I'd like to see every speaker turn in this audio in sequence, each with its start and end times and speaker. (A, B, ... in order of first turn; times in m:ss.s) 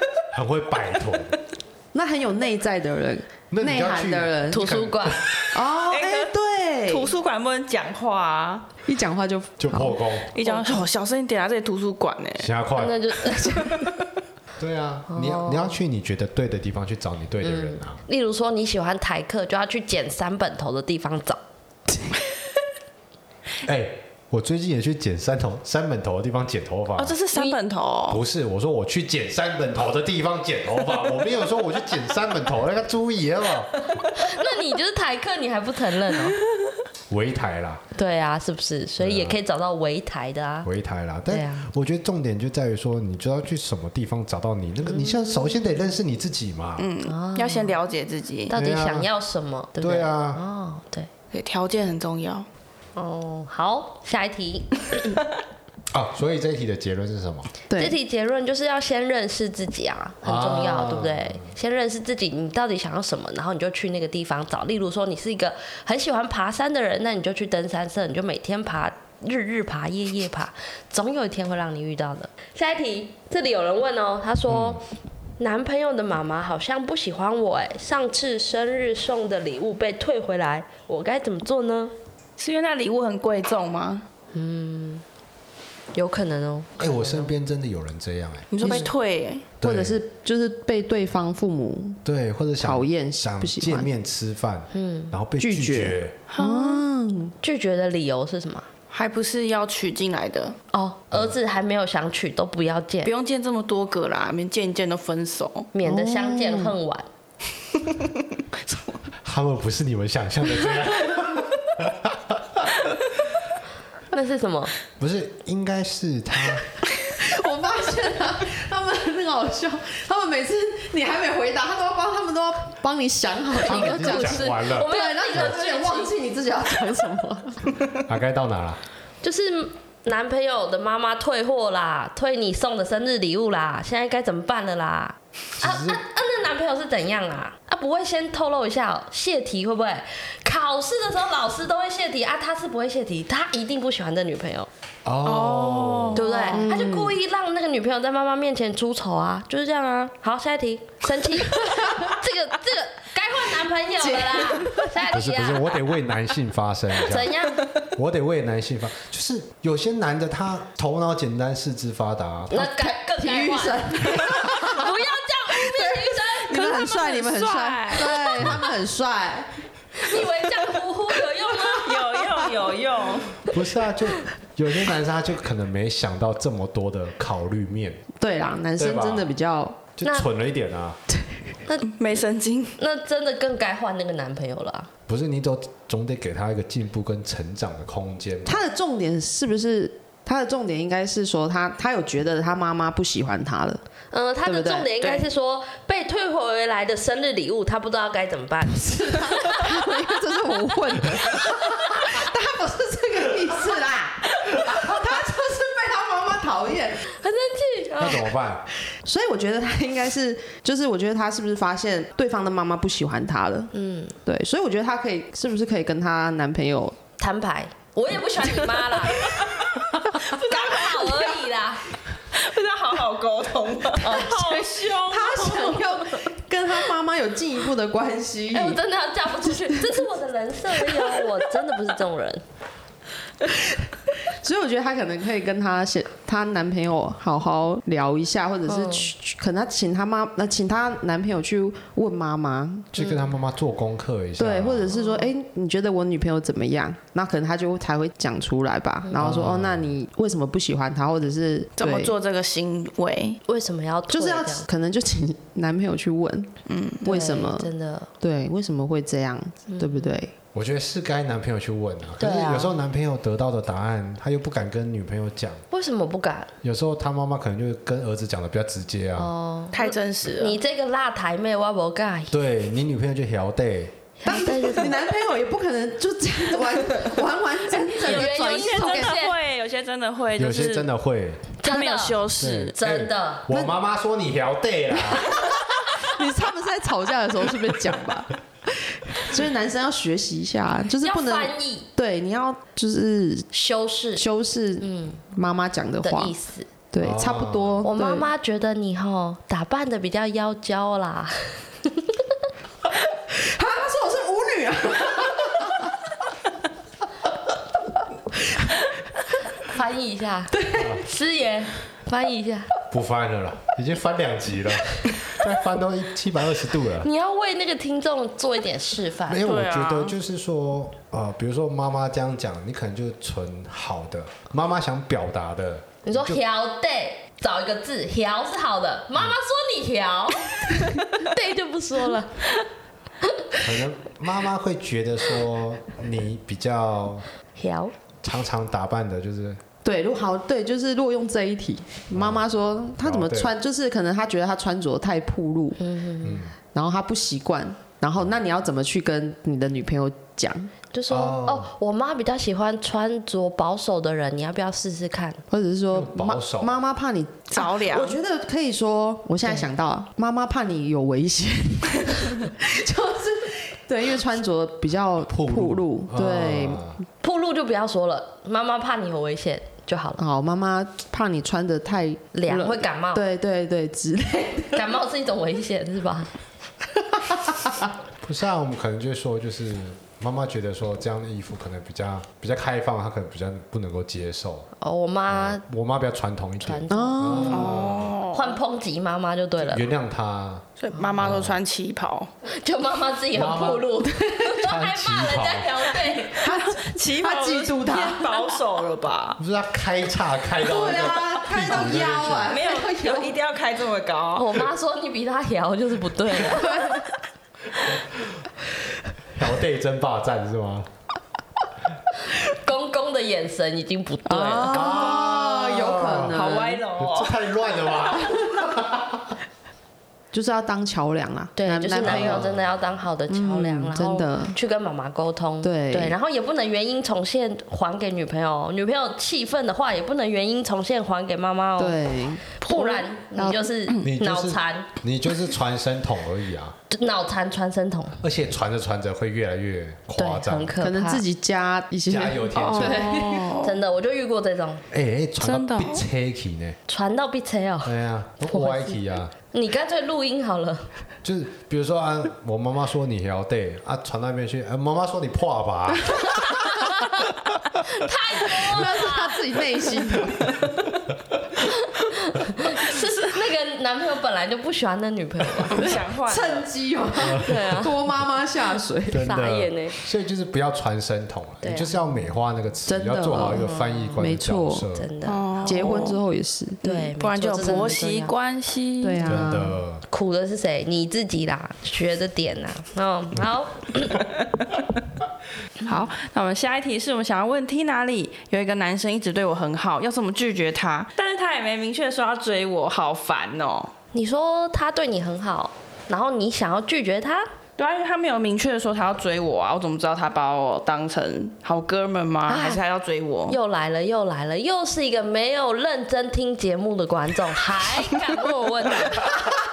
0:00.3-0:01.4 A
0:01.9-0:04.7 B
0:03.5-0:05.6 A
0:04.5-0:05.2 C
0:05.5-0:07.1 B
0:05.9-0:06.3 D
0:06.9-0:08.7 D
0:08.8-0:10.8 B
0:09.6-0:10.3 A
0:10.3-0:12.5 D
0:12.4-0:13.2 A
0:12.8-0:13.7 C
0:13.4-0:13.7 B
0:13.6-0:13.9 D
0:14.6-0:18.0 A
0:15.1-0:15.8 C
0:17.4-0:21.4 C
0:23.6-0:27.2 A
0:27.0-0:28.2 D
0:28.1-0:33.7 A
0:34.1-0:36.4 C
0:37.1-0:37.8 A
0:37.9-0:40.7 C
0:39.0-0:39.4 A
0:40.6-0:46.9 A
0:41.3-0:41.7 C
0:44.9-0:45.3 C
0:46.8-0:48.5 D
0:47.0-0:47.8 C
0:48.5-0:51.1 C
0:48.5-0:49.1 A
0:49.8-0:50.4 A
0:51.3-0:52.5 D
0:53.0-0:55.2 C
0:55.9-0:57.5 A
0:57.7-0:58.0 B
0:57.8-1:14.8 C
1:00.2-1:01.5 A
1:14.5-1:14.8 A
1:15.4-1:21.9 C
1:22.4-1:24.0 D
1:24.3-1:25.0 C
1:25.9-1:27.3 C
1:26.8-1:28.5 A
1:28.5-1:29.4 D
1:28.6-1:28.9 B
1:29.6-1:30.0 A
1:29.6-1:32.0 B
1:32.0-1:36.1 A
1:32.6-1:33.9 B
1:34.7-1:35.1 C
1:35.4-1:37.3 B
1:36.3-1:36.8 D
1:37.4-1:38.6 C
1:38.9-1:40.6 D
1:40.7-1:43.1 C
1:43.0-1:45.7 D
1:45.7-1:47.0 C
1:45.8-1:46.7 B
1:48.6-1:49.0 D
1:49.2-1:52.7 A
1:54.1-1:54.7 C
1:55.0-1:56.6 A
1:57.0-2:07.8 B
2:03.6-2:05.5 A
2:03.6-2:06.1 C
2:08.0-2:08.8 A
2:09.2-2:24.7 C
2:15.6-2:16.0 A
2:25.0-2:26.3 A
2:25.2-2:26.6 D
2:26.1-2:35.8 C
2:26.5-2:27.2 B
2:31.7-2:32.0 B
2:34.0-2:35.0 B
2:35.1-2:37.4 A
2:36.9-2:37.6 C
2:37.9-2:42.7 A
2:42.5-2:46.9 C
2:42.5-2:44.9 B
2:45.5-2:49.6 B
2:46.5-2:48.6 D
2:50.0-2:52.1 C
2:51.7-2:53.4 D
2:53.4-2:58.0 A
2:58.2-2:59.8 B
2:58.8-2:59.3 A
3:00.0-3:01.0 A
3:01.9-3:02.8 D
3:02.8-3:04.9 C
3:05.1-3:08.6 A
3:08.4-3:13.8 B
3:14.1-3:19.7 C
3:14.4-3:14.9 B
3:18.8-3:27.0 B
3:27.2-3:28.3 C
3:28.0-3:28.6 A
3:29.0-3:33.7 B
3:33.7-3:34.1 C
3:34.2-3:37.0 B
3:37.2-3:39.4 C
3:39.2-3:41.3 D
3:40.1-3:41.8 C
3:42.3-3:46.0 D
3:44.0-3:44.6 C
3:44.1-3:48.8 B
3:48.5-3:52.4 C
3:54.2-4:03.0 B
3:58.7-3:59.1 C
4:02.9-4:05.0 A
4:04.4-4:12.1 B
4:09.2-4:09.9 A
4:11.8-4:13.4 D
4:13.4-4:14.7 C
4:14.1-4:16.5 B
4:16.7-4:17.0 D
4:17.0-4:20.3 B
4:17.0-4:18.1 C
4:19.7-4:20.2 C
4:20.5-4:25.6 A
4:22.2-4:22.7 C
4:25.7-4:26.5 C
4:26.6-4:29.3 A
4:29.2-4:32.4 C
4:29.7-4:30.6 D
4:32.3-4:34.0 A
4:34.2-4:35.0 C
4:34.2-4:39.2 B
4:37.9-4:40.9 D
4:38.0-4:39.4 C
4:40.4-4:41.4 A
4:41.6-4:42.2 C
4:41.6-4:42.7 D
4:42.4-4:45.6 A
4:42.8-4:43.5 C
4:43.5-4:43.7 B
4:45.1-4:53.5 B
4:51.0-4:51.9 C
4:53.5-4:54.2 C
4:54.2-4:56.3 B
4:54.8-4:55.2 C
4:56.0-4:56.7 C
4:56.9-4:58.3 B
4:57.0-4:57.9 A
4:57.8-5:02.2 C
5:03.3-5:05.9 B
5:09.6-5:12.7 C
5:10.5-5:11.0 B
5:10.8-5:11.0 A
5:12.9-5:17.1 A
5:17.0-5:19.4 C
5:19.3-5:26.4 A
5:19.4-5:20.1 D
5:26.0-5:32.4 C
5:33.6-5:37.3 A
5:37.6-5:37.9 C
5:38.2-5:39.6 A
5:39.8-5:45.8 B
5:42.1-5:42.4 A
5:43.0-5:43.5 A
5:45.8-5:46.5 C
5:46.2-5:46.5 A
5:46.6-5:50.7 B
5:50.9-5:55.4 C
5:51.1-5:51.7 A
5:55.5-6:06.9 B
5:55.9-5:56.8 A
5:57.5-5:58.2 D
6:05.3-6:07.0 A
6:07.2-6:10.2 C
6:10.2-6:14.9 B
6:12.3-6:13.2 C
6:14.7-6:16.3 C
6:18.2-6:24.7 A
6:24.8-6:25.6 C
6:25.3-6:28.1 A
6:26.6-6:27.7 C
6:26.9-6:27.8 B
6:27.5-6:28.6 D
6:28.3-6:29.8 C
6:29.6-6:30.6 A
6:30.8-6:32.3 D
6:31.2-6:31.6 A
6:32.4-6:36.5 C
6:33.3-6:33.9 A
6:34.6-6:35.9 A
6:36.4-6:38.5 B
6:36.4-6:39.4 D
6:39.4-6:42.6 A
6:40.6-6:43.4 B
6:41.9-6:44.6 D
6:44.3-6:47.0 C
6:46.5-6:47.0 B
6:47.9-6:48.4 A
6:49.3-6:50.9 A
6:52.3-6:54.9 C
6:54.3-6:56.8 B
6:54.7-6:56.4 A
6:56.3-6:58.0 D
6:57.0-6:59.3 A
7:00.3-7:02.4 B
7:01.6-7:12.0 C
7:02.0-7:02.6 A
7:03.3-7:04.6 B
7:05.6-7:06.2 B
7:11.8-7:13.6 B
7:12.6-7:14.9 C
7:14.0-7:16.8 A
7:16.9-7:18.2 C
7:18.2-7:20.8 A
7:20.2-7:21.2 C
7:20.8-7:23.5 B
7:22.1-7:23.2 A
7:22.6-7:23.7 D
7:23.6-7:24.8 C
7:24.9-7:26.8 A
7:25.4-7:26.0 D
7:26.9-7:27.9 C
7:27.8-7:29.3 A
7:28.5-7:30.9 C
7:31.2-7:36.8 A
7:36.7-7:37.1 C
7:37.8-7:39.4 C
7:38.5-7:40.6 B
7:41.6-7:45.8 C
7:45.7-7:46.7 D
7:45.7-7:49.3 B
7:47.2-7:47.5 A
7:47.2-7:47.9 C
7:49.1-7:55.1 A
7:49.2-7:50.0 C
7:51.6-7:51.9 C
7:52.8-7:54.9 B
7:53.3-7:54.3 C
7:54.9-7:55.8 C
7:55.2-7:56.2 D
7:55.6-7:56.8 B
7:56.8-7:58.3 C
7:56.8-7:59.5 D
7:57.6-7:57.9 B
7:59.0-7:59.8 B
7:59.2-8:00.0 A
8:00.1-8:04.2 C
8:05.8-8:13.9 D
8:14.1-8:17.5 C
8:17.8-8:23.6 D
8:22.5-8:22.8 C
8:23.5-8:29.4 C